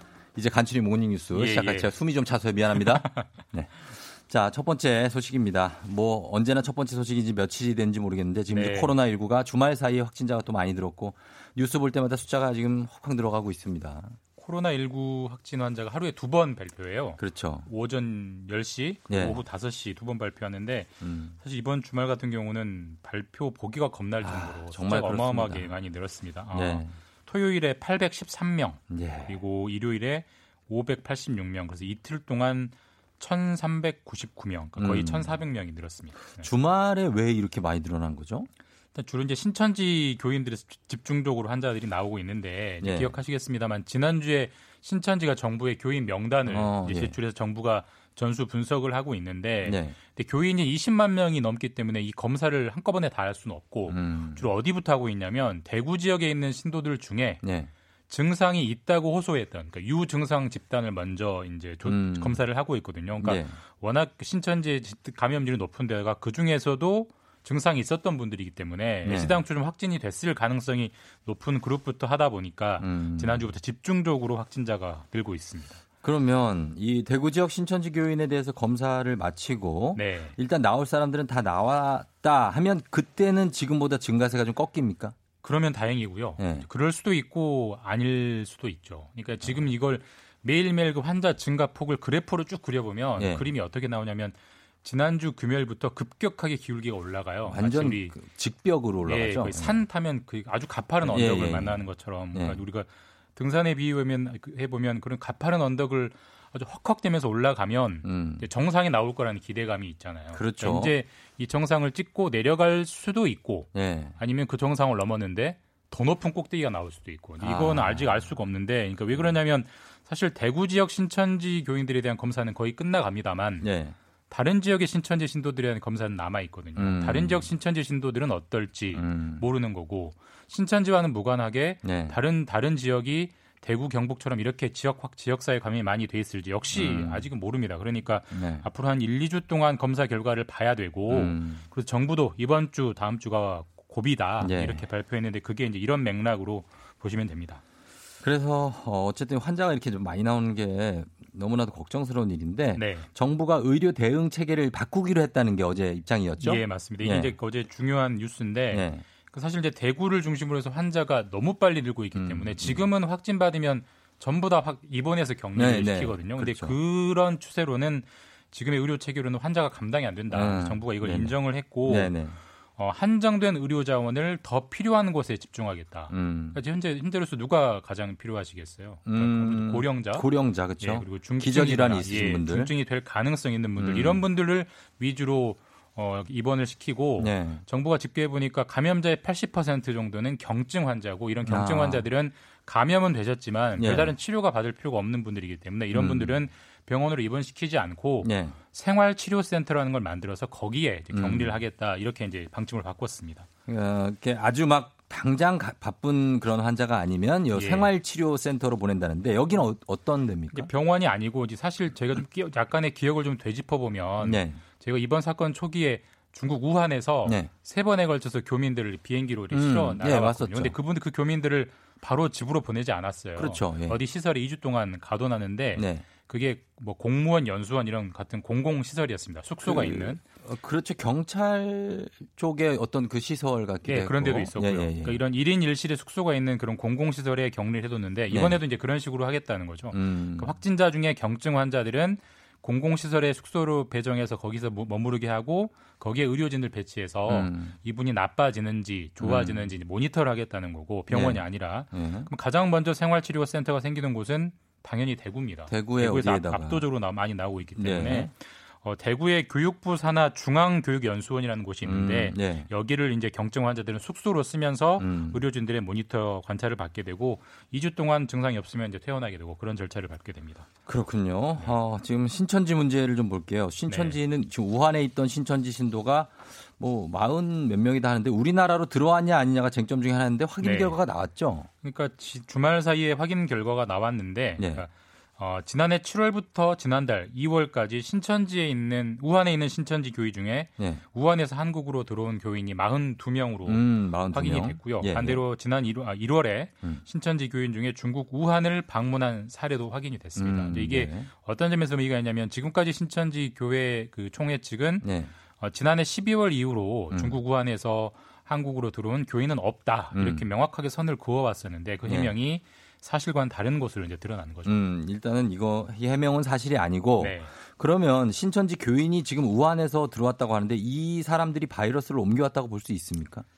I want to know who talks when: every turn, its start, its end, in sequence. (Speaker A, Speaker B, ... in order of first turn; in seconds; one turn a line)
Speaker A: 0.4-14.2
Speaker B: 1.3-1.9
Speaker B: 2.7-3.2
Speaker B: 8.5-8.9
Speaker B: 14.4-36.5
Speaker A: 17.2-17.7
Speaker A: 19.1-19.4
Speaker A: 21.0-21.4
Speaker A: 24.2-25.7
Speaker A: 26.5-26.9
Speaker A: 28.9-29.4
Speaker A: 34.8-35.4
Speaker A: 36.4-38.5
Speaker B: 39.0-57.4
Speaker A: 42.8-43.2
Speaker A: 46.5-47.2
Speaker A: 49.6-50.0
Speaker A: 53.9-54.5
Speaker A: 57.4-57.7
Speaker B: 58.1-75.8
Speaker A: 61.9-62.5
Speaker A: 63.2-63.6
Speaker A: 69.0-69.4
Speaker A: 72.8-73.5
Speaker A: 76.0-85.2
Speaker B: 80.0-80.4
Speaker B: 85.4-98.1
Speaker A: 86.4-86.7
Speaker A: 93.2-93.5
Speaker A: 97.5-99.8
Speaker B: 99.0-123.7
Speaker A: 101.0-102.6
Speaker A: 108.0-108.5
Speaker A: 110.3-111.0
Speaker A: 113.7-114.2
Speaker A: 117.4-118.3
Speaker A: 119.1-119.4
Speaker A: 123.6-124.0
Speaker B: 124.3-147.6
Speaker A: 126.8-127.5
Speaker A: 128.9-129.5
Speaker A: 131.8-132.2
Speaker A: 136.7-137.3
Speaker A: 138.3-138.7
Speaker A: 141.1-141.6
Speaker A: 144.4-144.8
Speaker A: 148.2-157.3
Speaker B: 152.8-153.1
Speaker B: 156.4-172.2
Speaker A: 158.7-159.1
Speaker A: 162.1-162.9
Speaker A: 165.6-166.8
Speaker A: 170.3-172.4
Speaker B: 172.8-180.3
Speaker A: 176.1-176.6
Speaker A: 179.1-182.7
Speaker B: 180.8-203.5
Speaker A: 183.8-184.2
Speaker A: 187.2-187.6
Speaker A: 191.4-192.1
Speaker A: 193.8-194.2
Speaker A: 195.9-196.4
Speaker A: 198.2-198.6
Speaker A: 201.1-201.6
Speaker A: 203.7-210.7
Speaker B: 207.5-207.9
Speaker B: 210.5-230.2
Speaker A: 214.2-214.6
Speaker A: 217.2-217.5
Speaker A: 219.5-220.8
Speaker A: 223.4-224.0
Speaker A: 225.8-226.1
Speaker A: 229.6-235.2
Speaker B: 233.8-270.7
Speaker A: 238.3-238.6
Speaker A: 239.9-240.6
Speaker A: 247.3-247.8
Speaker A: 249.2-249.7
Speaker A: 251.1-252.3
Speaker A: 255.7-256.9
Speaker A: 257.8-258.3
Speaker A: 261.8-262.7
Speaker A: 265.0-265.4
Speaker A: 270.9-281.7
Speaker B: 273.9-274.2
Speaker B: 280.6-281.0
Speaker B: 281.8-305.1
Speaker A: 284.6-284.9
Speaker A: 293.6-295.4
Speaker A: 300.4-301.3
Speaker A: 305.0-305.3
Speaker B: 305.6-314.8
Speaker A: 307.1-307.4
Speaker A: 310.1-310.4
Speaker A: 312.0-312.4
Speaker A: 314.7-323.4
Speaker B: 317.2-317.5